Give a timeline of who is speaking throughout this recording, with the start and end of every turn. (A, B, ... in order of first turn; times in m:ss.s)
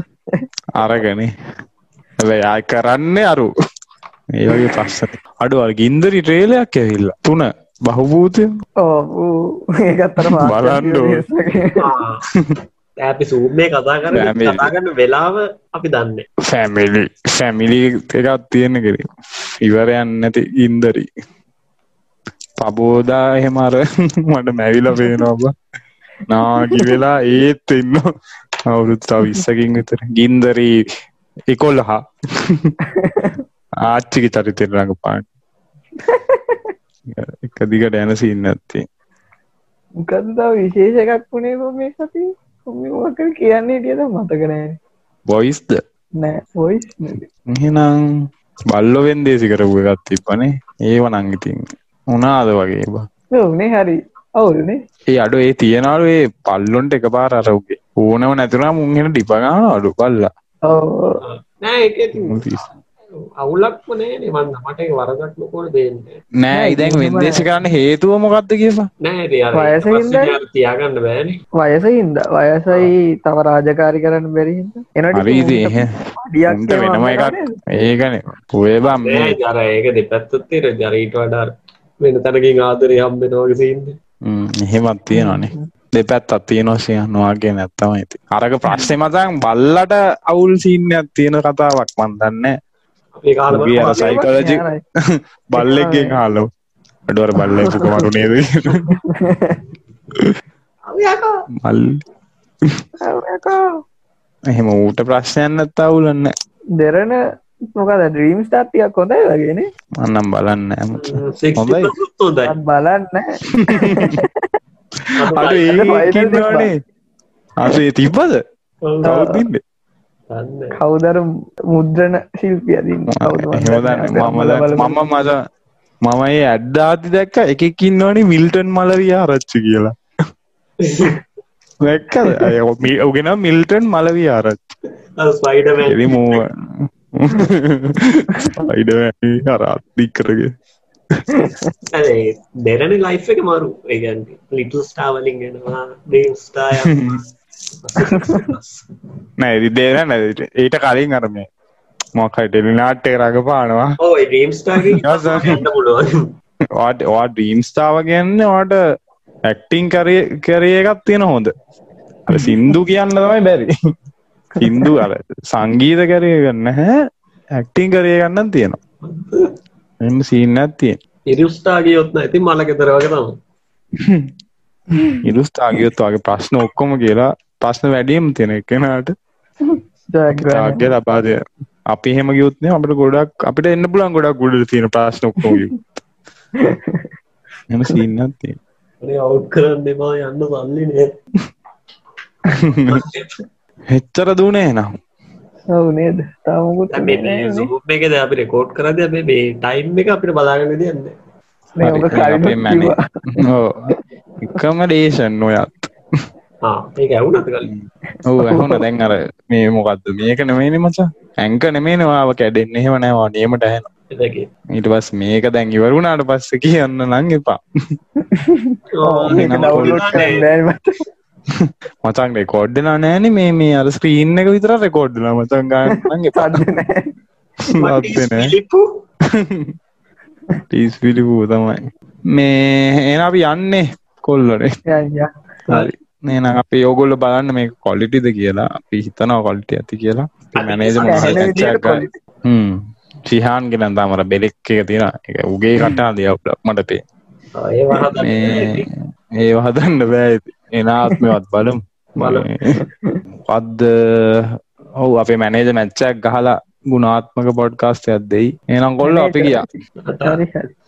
0:00.8-0:01.3 A
0:02.2-0:03.5 A
0:04.3-0:08.4 A
0:08.8-0:11.8 B
0:10.4-0:11.2 A
0:11.8-0:12.2 C
0:13.0-0:16.2 C
0:14.1-0:14.7 A
0:16.4-0:19.1 A
0:19.6-0:21.1 A
0:22.6-0:25.5 A
0:25.0-0:25.2 B
0:26.3-0:28.0 A
0:28.7-0:30.7 A
0:31.5-0:32.7 A
0:33.0-0:33.3 B
0:33.9-0:35.2 A
0:36.1-0:36.6 B
0:37.1-0:38.8 A
0:40.0-0:44.8 B
0:45.3-0:45.8 A
0:46.2-0:47.2 B
0:47.5-0:47.9 A
0:48.7-0:53.1 A
0:53.3-0:54.8 B
0:55.1-1:00.3 A
1:00.7-1:01.2 B
1:01.2-1:02.4 C
1:02.1-1:02.8 A
1:03.4-1:06.2 C
1:06.4-1:08.9 A
1:06.5-1:07.5 B
1:09.0-1:11.4 C
1:09.5-1:10.3 B
1:11.6-1:17.6 B
1:15.1-1:15.9 A
1:16.5-1:19.4 A
1:18.8-1:24.0 C
1:24.2-1:32.5 A
1:25.1-1:25.6 B
1:33.2-1:34.1 C
1:33.5-1:36.5 A
1:33.9-1:34.8 B
1:35.6-1:36.2 B
1:37.1-1:38.8 A
1:37.4-1:38.1 B
1:40.9-1:41.2 C
1:41.6-1:41.9 A
1:43.1-1:43.6 B
1:44.5-1:46.3 A
1:46.8-1:47.2 B
1:47.8-1:49.7 B
1:50.0-1:51.9 A
1:51.0-1:52.5 C
1:52.4-1:54.3 B
1:53.6-1:54.1 A
1:55.2-1:55.8 C
1:55.3-1:56.7 A
1:55.7-1:56.7 B
1:57.6-1:58.4 A
1:59.0-1:59.6 A
1:59.1-1:59.4 B
2:00.3-2:00.8 C
2:00.8-2:05.0 B
2:03.1-2:05.3 A
2:06.0-2:09.9 A
2:11.8-2:14.7 A
2:15.2-2:16.4 C
2:15.9-2:20.5 A
2:21.3-2:21.7 B
2:21.9-2:27.2 C
2:26.9-2:27.2 A
2:27.9-2:28.8 C
2:29.4-2:31.4 A
2:32.2-2:33.9 A
2:34.0-2:36.0 C
2:35.0-2:35.5 A
2:36.8-2:38.8 A
2:39.5-2:41.5 A
2:42.3-2:43.7 A
2:44.6-2:45.0 B
2:44.6-2:46.8 A
2:47.6-2:48.8 A
2:49.0-2:49.4 C
2:50.0-2:51.0 A
2:51.3-2:53.3 C
2:54.0-2:54.3 A
2:55.2-2:59.1 A
3:00.1-3:00.8 B
3:00.3-3:01.4 A
3:01.9-3:06.0 A
3:06.7-3:07.0 B
3:07.7-3:08.6 A
3:09.0-3:11.1 C
3:12.9-3:13.3 C
3:13.9-3:14.9 A
3:15.7-3:17.7 B
3:16.9-3:21.1 C
3:21.8-3:23.0 B
3:21.8-3:25.9 A
3:26.6-3:27.7 C
3:27.6-3:33.9 A
3:28.4-3:28.8 B
3:34.1-3:34.5 C
3:34.8-3:37.6 A
3:38.3-3:40.9 B
3:39.0-3:40.4 C
3:39.3-3:40.3 A
3:41.6-3:46.6 A
3:46.0-3:47.0 B
3:47.7-3:48.5 A
3:47.8-3:48.8 C
3:49.3-3:49.7 A
3:50.7-3:51.8 A
3:52.3-3:54.7 A
3:54.9-3:55.9 B
3:55.7-4:02.7 A
4:00.5-4:01.5 C
4:01.0-4:02.1 B
4:03.3-4:07.0 A
4:07.6-4:08.8 C
4:08.2-4:08.8 A
4:09.4-4:12.5 A
4:12.2-4:12.4 C
4:12.8-4:13.2 B
4:13.5-4:14.5 A
4:15.0-4:19.6 A
4:19.0-4:19.7 B
4:20.0-4:20.4 C
4:20.2-4:20.7 B